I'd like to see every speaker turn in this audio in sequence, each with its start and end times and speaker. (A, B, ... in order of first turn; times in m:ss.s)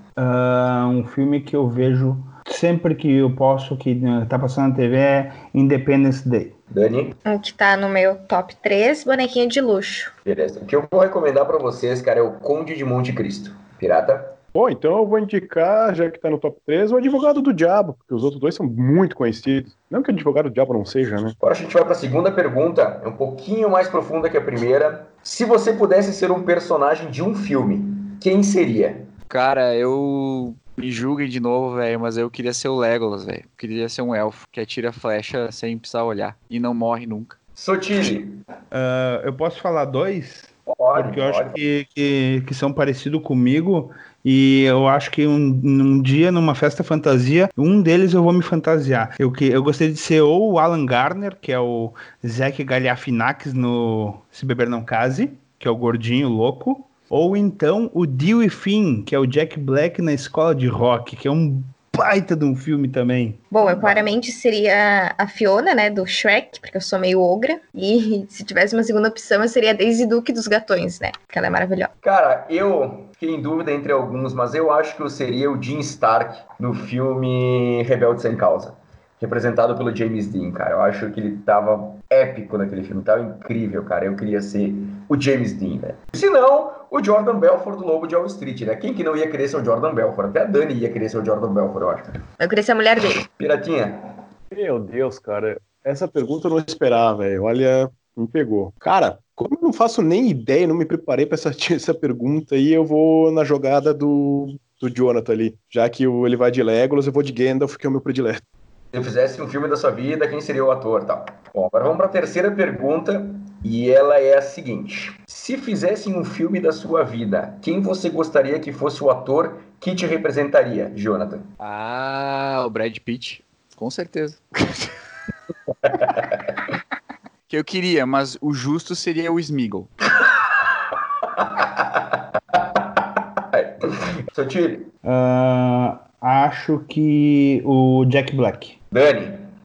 0:00.2-0:06.5 A
0:06.7-0:07.2 B
0:07.2-0:10.1 C
0:10.2-0:14.4 B
0:14.5-0:21.3 D
0:21.4-0:29.1 B
0:29.3-0:37.4 E
0:37.6-0:38.4 B
0:38.7-1:03.4 A
0:40.6-0:41.6 B
1:03.5-1:11.9 C
1:12.0-1:32.2 B
1:32.4-1:33.2 C
1:33.3-1:34.0 B
1:34.5-1:48.4 D
1:48.9-2:01.4 B
2:01.6-2:04.9 E
2:05.8-2:06.5 B
2:07.5-2:09.9 E
2:11.4-2:12.0 B
2:12.5-2:14.9 B
2:15.0-2:18.8 A
2:18.9-2:19.5 B